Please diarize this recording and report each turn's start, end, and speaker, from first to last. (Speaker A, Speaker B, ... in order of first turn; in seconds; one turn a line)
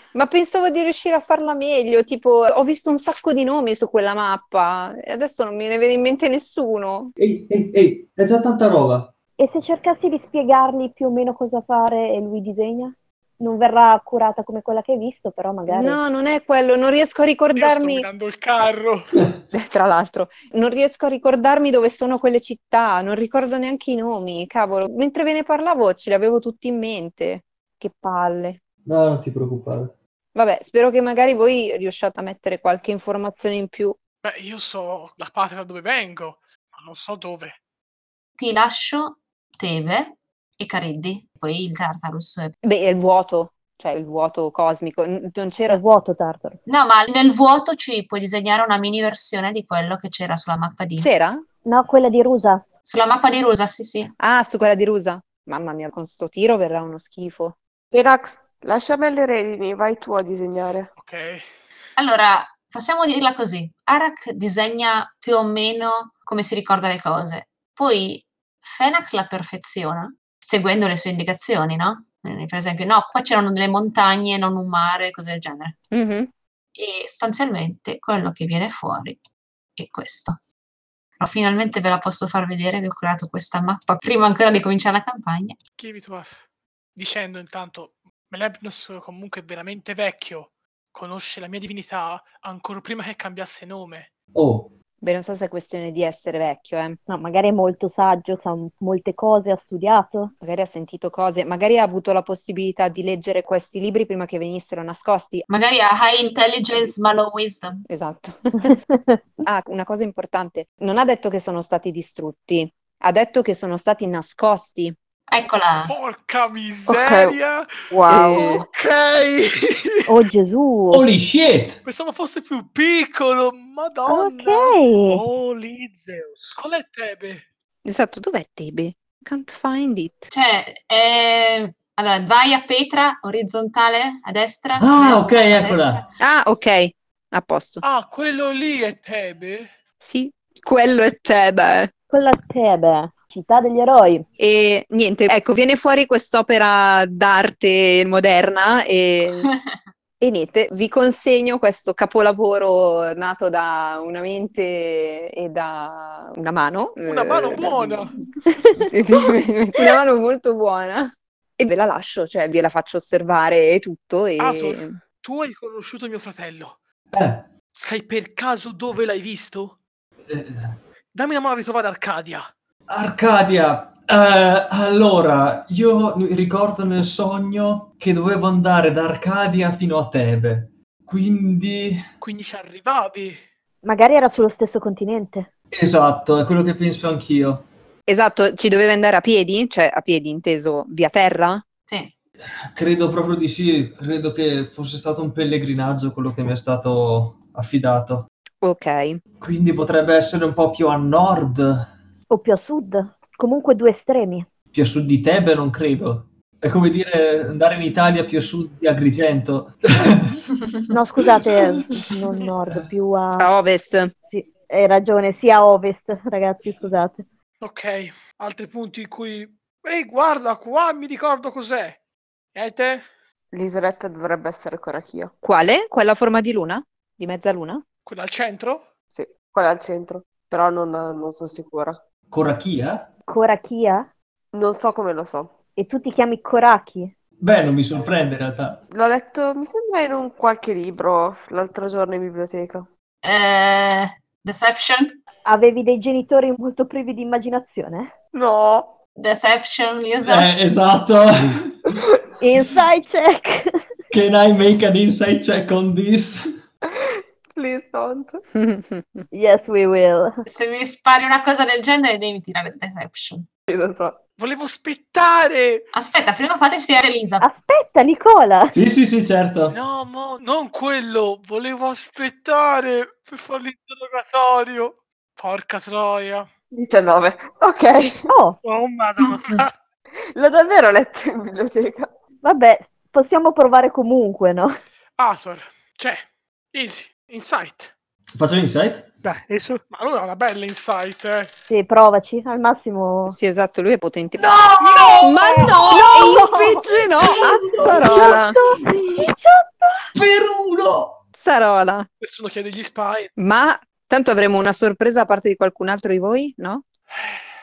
Speaker A: 0.1-7.1
Speaker B: 7.2-9.1
Speaker C: 9.4-16.0
Speaker A: 15.7-18.1
Speaker D: 17.5-19.1
Speaker A: 19.5-28.6
Speaker B: 28.8-29.9
Speaker A: 30.3-34.0
Speaker D: 34.2-37.6
Speaker E: 38.4-42.5
Speaker A: 42.6-45.8
Speaker C: 45.7-46.6
Speaker E: 46.7-51.1
Speaker A: 51.0-51.4
Speaker C: 51.6-52.6
Speaker E: 52.8-54.1
Speaker A: 54.2-57.6
Speaker F: 57.9-60.9
Speaker D: 61.0-61.5
Speaker E: 62.0-75.8
Speaker A: 75.9-76.3
Speaker E: 76.8-79.2
Speaker E: 79.8-80.4
Speaker E: 81.2-85.6
Speaker D: 85.8-94.1
Speaker B: 94.3-94.7
Speaker A: 95.0-97.0
Speaker C: 97.1-100.3
Speaker A: 100.4-105.5
Speaker E: 105.5-107.8
Speaker A: 107.9-108.7
Speaker C: 108.6-109.2
Speaker A: 109.4-114.9
Speaker E: 115.3-115.9
Speaker D: 115.8-117.7
Speaker F: 116.9-117.4
Speaker F: 117.9-118.6
Speaker A: 118.1-118.6
Speaker D: 118.3-120.1
Speaker C: 120.0-121.0
Speaker B: 120.9-121.8
Speaker D: 121.8-124.8
Speaker C: 124.1-125.2
Speaker G: 125.1-126.6
Speaker D: 126.5-127.4
Speaker A: 127.8-130.3
Speaker E: 130.3-136.0
Speaker B: 134.8-136.0
Speaker A: 136.2-137.8
Speaker D: 137.8-139.7
Speaker A: 140.0-141.9
Speaker C: 142.1-144.2
Speaker A: 144.4-149.5
Speaker A: 150.2-158.1
Speaker D: 157.0-158.1
Speaker A: 158.8-165.0
Speaker D: 164.4-166.8
Speaker B: 167.1-167.5
Speaker D: 167.7-169.8
Speaker B: 170.2-170.8
Speaker D: 171.1-172.5
Speaker B: 172.9-182.0
Speaker D: 182.2-183.4
Speaker C: 183.8-185.5
Speaker B: 185.7-187.7
Speaker A: 188.1-191.6
Speaker E: 191.9-192.1
Speaker B: 192.7-198.3
Speaker A: 198.6-199.2
Speaker B: 199.4-201.9
Speaker C: 202.3-204.5
Speaker B: 204.7-210.4
Speaker C: 210.9-213.5
Speaker A: 213.4-214.1
Speaker C: 214.3-217.2
Speaker D: 217.6-222.0
Speaker D: 222.5-223.1
Speaker F: 223.5-225.3
Speaker A: 225.4-227.8
Speaker D: 228.1-228.9
Speaker F: 229.1-232.0
Speaker B: 232.3-233.1
Speaker C: 233.3-234.1
Speaker F: 234.5-235.5
Speaker C: 235.8-237.1
Speaker B: 237.4-238.8
Speaker F: 238.9-242.9
Speaker E: 243.2-245.2
Speaker C: 245.4-248.1
Speaker F: 248.3-249.0
Speaker E: 249.2-250.5
Speaker B: 250.2-251.9
Speaker C: 252.4-253.8
Speaker B: 254.1-256.4
Speaker F: 256.9-258.4
Speaker A: 258.5-259.3
Speaker C: 259.3-260.4
Speaker E: 260.4-263.4
Speaker F: 263.7-264.2
Speaker D: 264.4-265.8
Speaker E: 265.9-267.5
Speaker C: 267.4-268.8
Speaker B: 268.7-269.8
Speaker D: 269.7-276.5
Speaker F: 276.7-278.3
Speaker C: 278.3-278.6
Speaker G: 278.6-279.7
Speaker E: 279.2-279.6
Speaker F: 280.3-282.1
Speaker C: 282.4-284.7
Speaker D: 285.2-287.9
Speaker B: 288.3-289.1
Speaker G: 289.2-289.8
Speaker D: 289.9-291.5
Speaker C: 291.7-293.4
Speaker A: 293.2-294.6
Speaker B: 294.6-295.1
Speaker D: 294.8-295.2
Speaker C: 294.9-300.1
Speaker A: 295.2-298.6
Speaker B: 297.4-298.0
Speaker B: 300.1-301.2
Speaker A: 301.4-302.1
Speaker D: 302.2-303.3
Speaker A: 303.4-306.8